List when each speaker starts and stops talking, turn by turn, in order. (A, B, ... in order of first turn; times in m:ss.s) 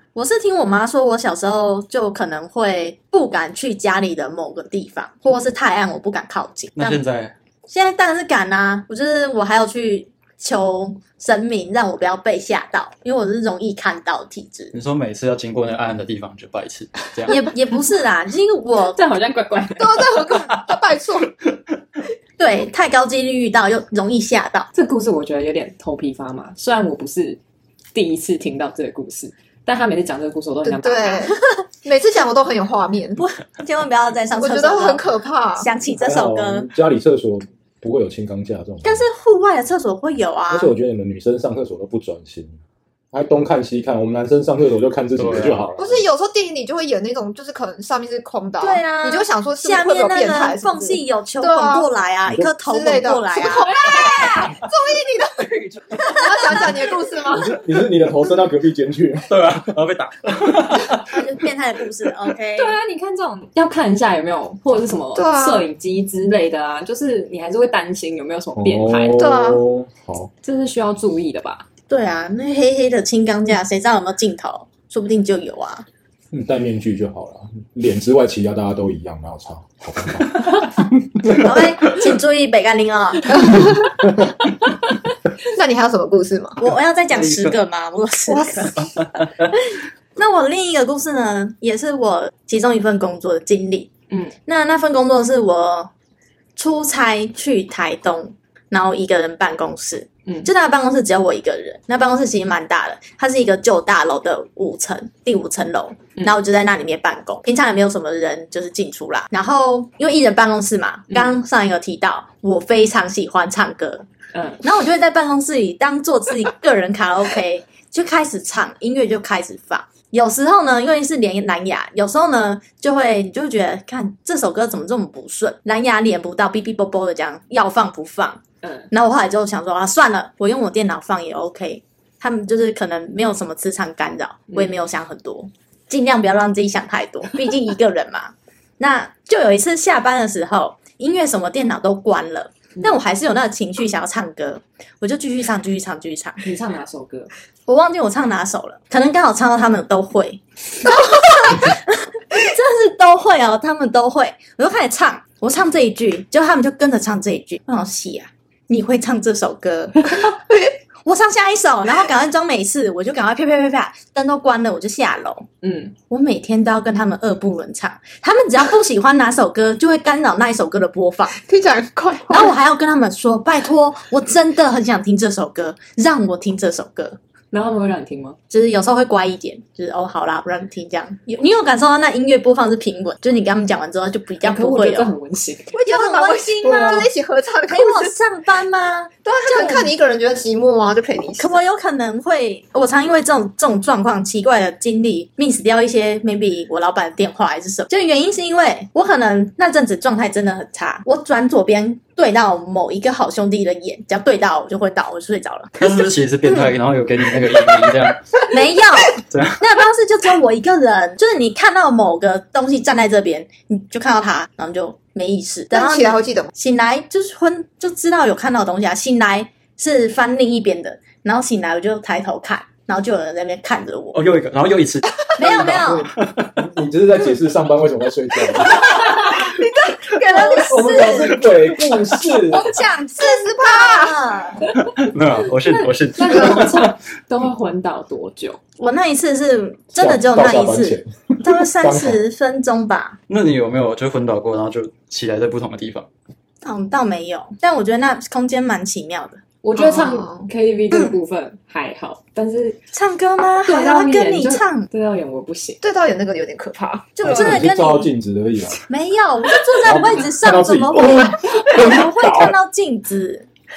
0:00.1-0:07.0 A
0:06.8-0:07.3 B
0:07.7-0:14.7 A
0:14.7-0:17.4 B
0:17.3-0:19.0 A
0:18.9-0:20.0 C
0:19.8-0:21.3 D
0:22.4-0:24.7 A
0:24.7-0:27.4 C
0:27.9-0:31.3 C
0:30.6-0:33.2 D
0:33.2-0:35.0 A
0:34.4-0:35.7 D
0:35.6-0:36.7 A
0:36.0-0:39.0 E
0:38.8-0:40.7 A
0:40.5-0:42.5 E
0:43.1-0:45.9 E
0:45.2-0:45.7 B
0:45.8-0:51.9 D
0:48.6-0:53.7 A
0:52.6-0:57.6 D
0:57.3-0:59.3 E
0:59.3-1:01.1 B
1:01.1-1:02.8 A
1:02.5-1:09.2 C
1:05.1-1:05.6 D
1:08.6-1:10.3 E
1:09.1-1:09.6 D
1:10.4-1:11.6 C
1:11.9-1:15.8 A
1:16.3-1:20.7 E
1:21.3-1:23.7 A
1:23.3-1:23.9 D
1:25.5-1:26.6 D
1:26.6-1:28.9 A
1:27.1-1:27.6 B
1:28.8-1:29.3 B
1:29.5-1:33.9 A
1:34.4-1:35.9 A
1:36.6-1:54.0 A
1:54.3-1:54.6 C
1:54.6-2:26.4 A
2:14.5-2:14.8 C
2:26.4-2:27.3 C
2:27.7-2:40.3 A
2:30.8-2:31.7 D
2:41.0-2:45.5 A
2:45.6-2:45.9 C
2:46.1-2:51.4 A
2:51.3-2:52.5 D
2:52.3-2:57.2 A
2:57.5-2:58.4 C
2:58.5-3:05.1 A
3:04.4-3:05.7 C
3:05.7-3:08.1 D
3:05.8-3:07.1 A
3:07.7-3:09.9 A
3:09.2-3:11.6 D
3:11.4-3:26.0 A
3:25.8-3:28.4 B
3:28.4-3:44.2 A
3:29.3-3:29.6 B
3:35.7-3:36.5 D
3:44.1-3:46.5 B
3:45.4-3:46.1 A
3:45.4-3:49.1 E
3:48.6-3:51.4 D
3:50.3-3:51.4 A
3:50.4-3:52.6 E
3:52.5-3:54.6 A
3:52.5-3:54.4 D
3:54.7-3:56.9 B
3:55.5-3:58.6 C
3:58.8-4:03.2 A
4:00.0-4:02.2 E
4:03.3-4:06.1 B
4:06.6-4:09.4 A
4:09.6-4:12.8 C
4:09.8-4:10.5 D
4:12.9-4:14.9 A
4:13.6-4:15.8 C
4:15.8-4:17.3 D
4:17.2-4:18.1 A
4:17.2-4:18.8 E
4:18.9-4:23.5 A
4:19.8-4:22.5 E